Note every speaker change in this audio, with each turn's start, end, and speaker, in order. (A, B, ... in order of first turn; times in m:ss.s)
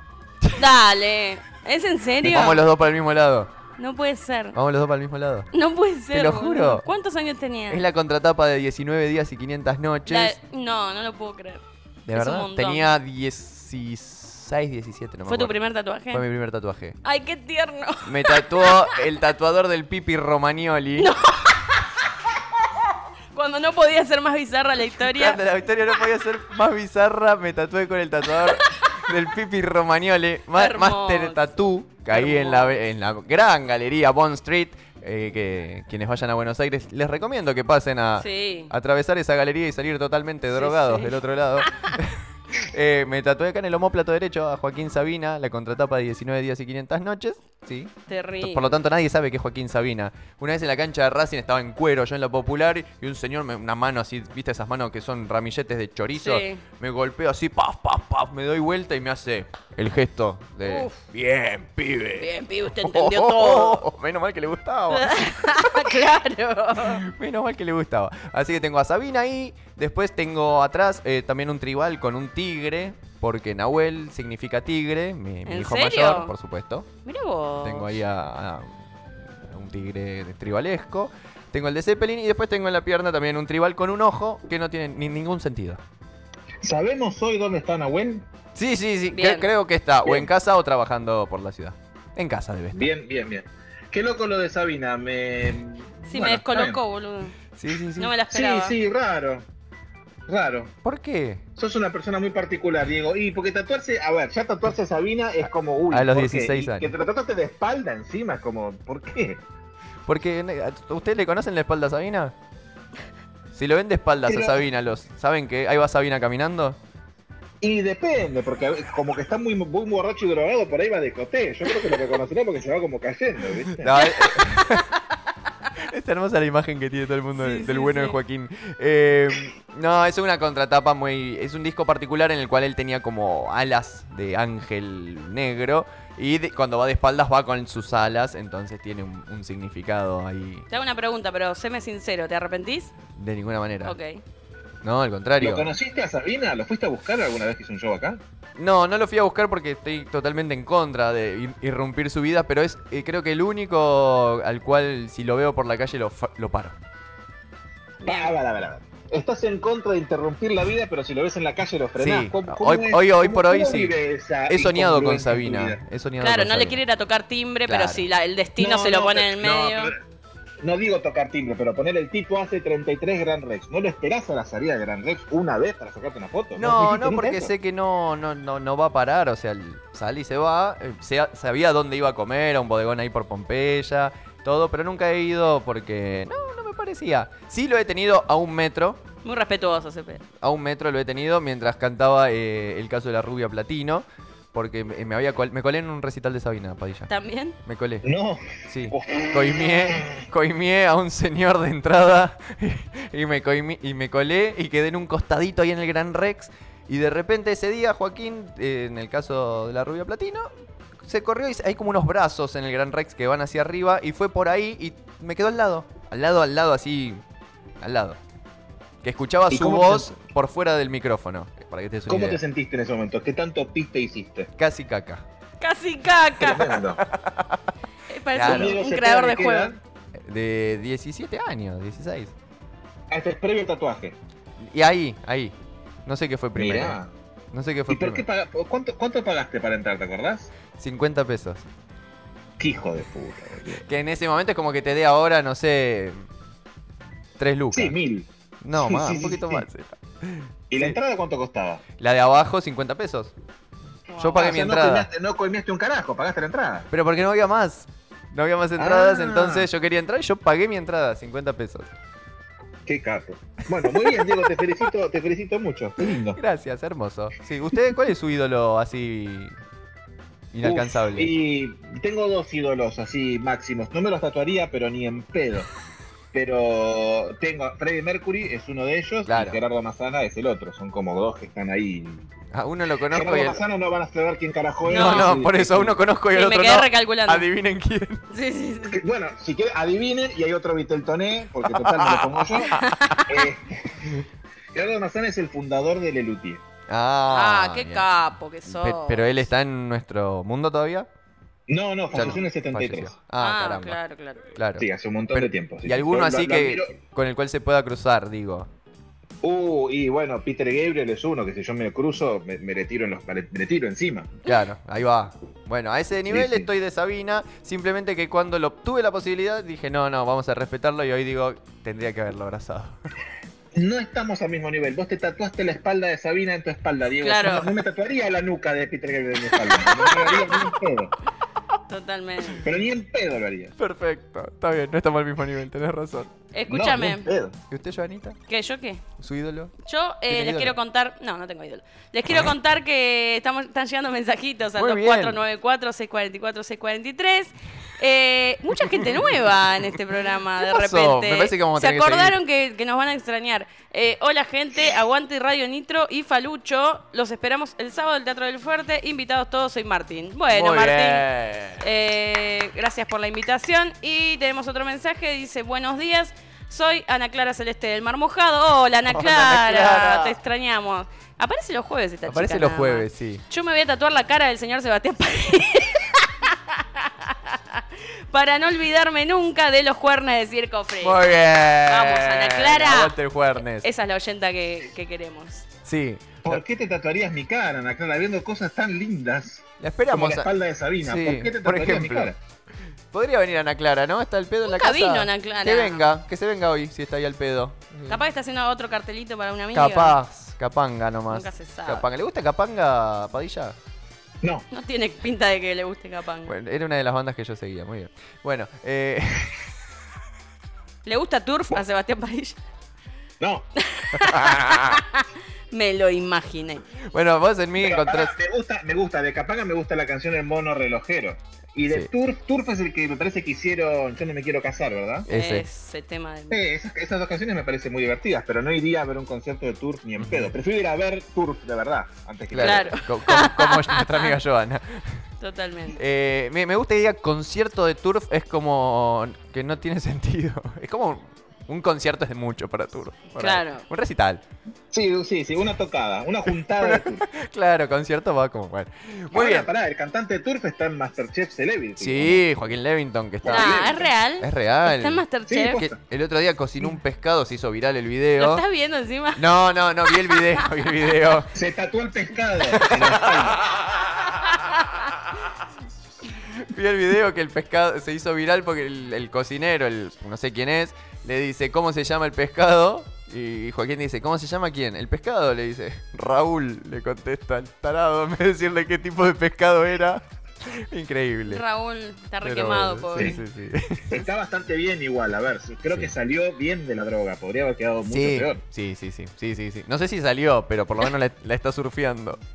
0:00.6-0:02.6 A
0:02.2-0:02.5 B
0:02.2-0:03.5 C
0:03.8-0:04.6 A
0:04.5-0:05.5 C
0:05.5-0:07.8 A
0:06.1-0:06.9 C
0:07.7-0:10.4 C
0:10.1-0:12.9 A
0:12.1-0:15.6 C
0:15.3-0:16.2 A
0:16.1-0:17.0 C
0:17.0-0:19.0 A
0:18.0-0:21.2 C
0:21.0-0:22.1 A
0:23.3-0:25.4 A
0:25.1-1:05.8 C
0:28.5-0:28.9 A
0:30.6-0:31.5 A
0:32.1-0:32.8 A
0:38.2-0:38.7 A
0:40.5-0:41.9 A
0:48.1-0:48.7 A
0:56.2-0:56.6 A
1:00.6-1:01.0 A
1:02.2-1:03.8 A
1:04.9-1:07.0 A
1:06.8-1:16.9 C
1:15.5-1:16.3 A
1:17.0-1:17.9 A
1:17.6-1:25.8 C
1:26.6-1:28.3 B
1:28.6-1:32.9 C
1:29.1-1:29.5 A
1:32.7-1:36.8 B
1:36.1-1:37.4 A
1:37.6-1:38.1 C
1:38.0-1:38.8 A
1:38.3-1:39.4 B
1:40.3-1:40.7 B
1:40.8-1:41.4 C
1:41.6-1:49.4 B
1:45.9-1:46.9 C
1:50.1-1:52.3 C
1:53.5-1:56.8 C
1:54.3-1:54.6 B
1:57.6-2:04.0 B
2:03.7-2:04.9 C
2:04.0-2:04.9 A
2:05.8-2:20.7 C
2:07.4-2:08.2 A
2:20.7-2:22.9 A
2:23.2-2:24.0 C
2:23.8-2:24.2 A
2:24.8-2:25.7 C
2:25.4-2:28.2 B
2:28.6-2:36.8 C
2:38.0-2:38.3 A
2:38.0-2:45.8 B
2:42.0-2:46.8 C
2:46.2-2:49.9 A
2:47.7-2:48.1 C
2:48.6-2:50.0 B
2:50.6-2:57.5 B
2:56.6-3:09.0 C
3:09.2-3:10.2 A
3:10.4-3:17.1 C
3:17.1-3:17.6 A
3:17.6-3:18.1 C
3:18.0-3:20.2 B
3:18.7-3:30.5 C
3:31.0-3:37.2 C
3:37.8-3:38.2 C
3:39.0-3:42.4 C
3:39.5-3:40.1 B
3:42.1-3:44.5 B
3:44.6-3:45.2 C
3:45.6-3:46.8 A
3:46.4-3:47.0 B
3:47.0-3:47.7 C
3:48.1-3:49.8 A
3:48.3-3:48.8 C
3:48.4-3:49.8 B
3:50.2-3:52.3 C
3:53.1-3:54.2 B
3:54.6-3:55.6 C
3:56.1-3:57.0 C
3:56.6-3:57.1 B
3:57.5-3:58.2 C
3:57.9-4:00.5 B
4:00.8-4:01.6 C
4:02.6-4:03.8 B
4:03.8-4:06.3 C
4:07.4-4:08.0 C
4:07.7-4:09.7 B
4:08.6-4:11.0 C
4:10.7-4:11.8 B
4:12.0-4:13.3 C
4:14.1-4:14.4 A
4:14.2-4:15.1 C
4:14.3-4:16.9 B
4:16.9-4:21.9 C
4:18.8-4:19.7 B
4:22.9-4:26.4 B
4:23.8-4:24.5 C
4:26.1-4:29.5 C
4:30.5-4:31.3 C
4:30.6-4:35.7 B
4:36.3-4:42.2 B
4:39.3-4:39.6 C
4:42.5-4:43.6 C
4:43.1-4:46.0 B
4:44.9-4:48.2 C
4:44.9-4:45.3 A
4:46.3-4:47.4 A
4:48.3-4:49.0 A
4:48.9-4:54.2 B
4:51.6-4:53.2 C
4:52.7-4:53.3 A
4:54.7-4:56.6 B
4:56.9-4:58.1 C
4:57.3-4:59.3 A
4:58.7-5:01.1 C
5:01.7-5:03.1 B
5:02.1-5:04.0 C
5:03.4-5:04.5 A
5:04.6-5:08.7 C
5:04.8-5:07.0 B
5:09.4-5:14.3 B
5:14.4-5:23.0 C
5:16.3-5:16.7 B
5:23.7-5:31.1 B
5:27.2-5:27.7 A
5:29.6-5:30.7 A
5:31.9-5:32.7 A
5:32.6-5:33.8 B
5:33.8-5:36.3 C
5:36.5-5:37.3 A
5:36.7-5:37.6 B
5:37.7-5:38.4 C
5:38.5-5:39.1 A
5:39.2-5:39.7 C
5:39.8-6:01.3 A
5:40.3-5:40.8 C
5:44.8-5:45.4 C
5:48.8-5:49.3 C
5:50.6-5:52.4 C
6:00.5-6:01.9 C
6:01.8-6:21.2 A
6:09.1-6:10.4 C
6:12.3-6:13.4 C
6:21.0-6:23.9 C
6:21.9-6:23.2 A
6:23.8-6:25.7 A
6:25.8-6:26.6 C
6:26.4-6:32.4 B
6:29.8-6:30.5 C
6:31.0-6:32.3 C
6:33.1-6:38.2 C
6:34.7-6:36.0 A
6:38.1-6:40.2 A
6:39.7-6:43.8 C
6:41.3-6:42.1 A
6:44.7-6:46.5 A
6:46.5-6:49.7 C
6:51.0-6:52.6 A
6:53.8-6:56.9 A
6:54.2-6:55.0 C
6:57.0-6:58.4 C
6:57.8-7:05.3 B
7:05.3-7:05.7 C
7:05.3-7:06.6 A
7:06.5-7:13.0 B
7:10.2-7:10.5 C
7:12.5-7:15.3 C
7:12.6-7:14.4 A
7:15.4-7:16.0 A
7:16.0-7:24.4 C
7:23.4-7:23.8 A
7:24.9-7:27.3 B
7:26.6-7:29.7 C
7:29.3-7:32.4 B
7:32.0-7:35.2 C
7:33.4-7:34.1 B
7:33.5-7:35.9 A
7:35.5-7:36.0 B
7:35.8-7:38.6 C
7:38.4-7:39.5 A
7:39.4-7:41.5 C
7:40.0-7:40.7 A
7:41.5-7:43.6 B
7:42.7-7:43.8 C
7:46.5-8:01.6 C
8:01.5-8:03.4 A
8:02.4-8:04.2 C
8:04.1-8:08.6 B
8:08.1-8:12.4 C